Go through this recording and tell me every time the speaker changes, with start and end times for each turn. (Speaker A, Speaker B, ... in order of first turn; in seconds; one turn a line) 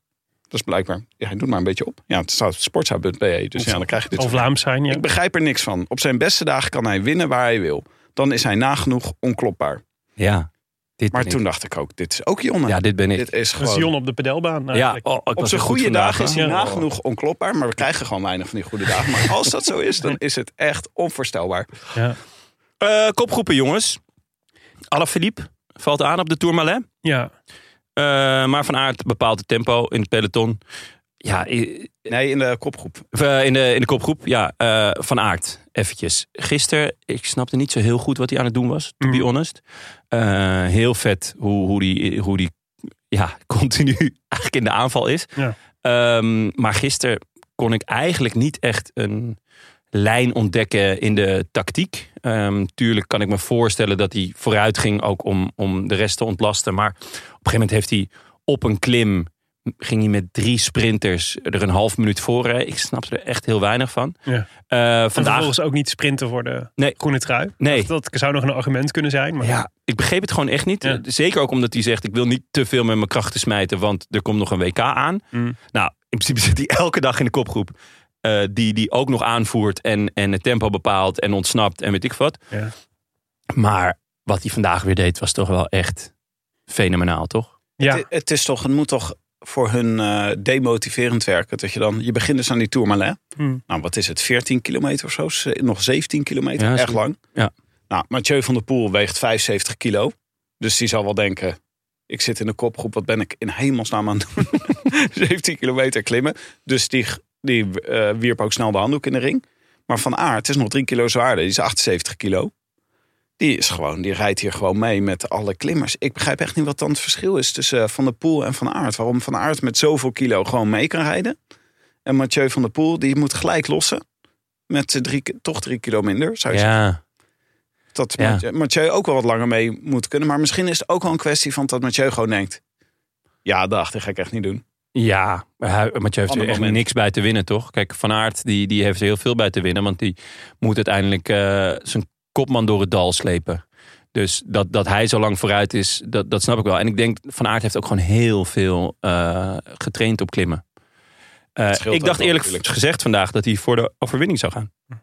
Speaker A: 0.5-9.8
Speaker B: 4.2-5.0
Speaker C: 10.2-10.5
Speaker C: 11.0-11.4
Speaker A: 11.1-13.9
Speaker C: 12.7-13.3
Speaker B: 13.6-15.0
Speaker C: 14.7-16.7
Speaker A: 15.3-21.7
Speaker B: 16.3-16.8
Speaker C: 22.8-24.0
Speaker C: 24.9-26.8
Speaker B: 27.0-27.3
Speaker C: 28.0-30.6
Speaker C: 31.2-32.1
Speaker A: 32.1-33.0
Speaker C: 33.1-42.5
Speaker C: 43.1-49.4
Speaker C: 49.9-65.5
Speaker B: 65.1-69.6
Speaker C: 67.6-67.9
Speaker C: 69.4-82.4
Speaker C: 83.5-86.1
Speaker C: 86.7-87.5
Speaker A: 87.8-97.2
Speaker C: 96.6-97.5
Speaker A: 97.9-101.6
Speaker A: 102.1-112.5
Speaker A: 113.4-121.3
Speaker A: 122.0-124.0
Speaker A: 124.7-126.7
Speaker C: 126.5-127.0
Speaker A: 127.9-132.6
Speaker A: 133.4-134.6
Speaker C: 134.9-143.6
Speaker A: 136.3-136.8
Speaker C: 144.1-150.6
Speaker C: 151.6-154.7
Speaker A: 151.7-152.6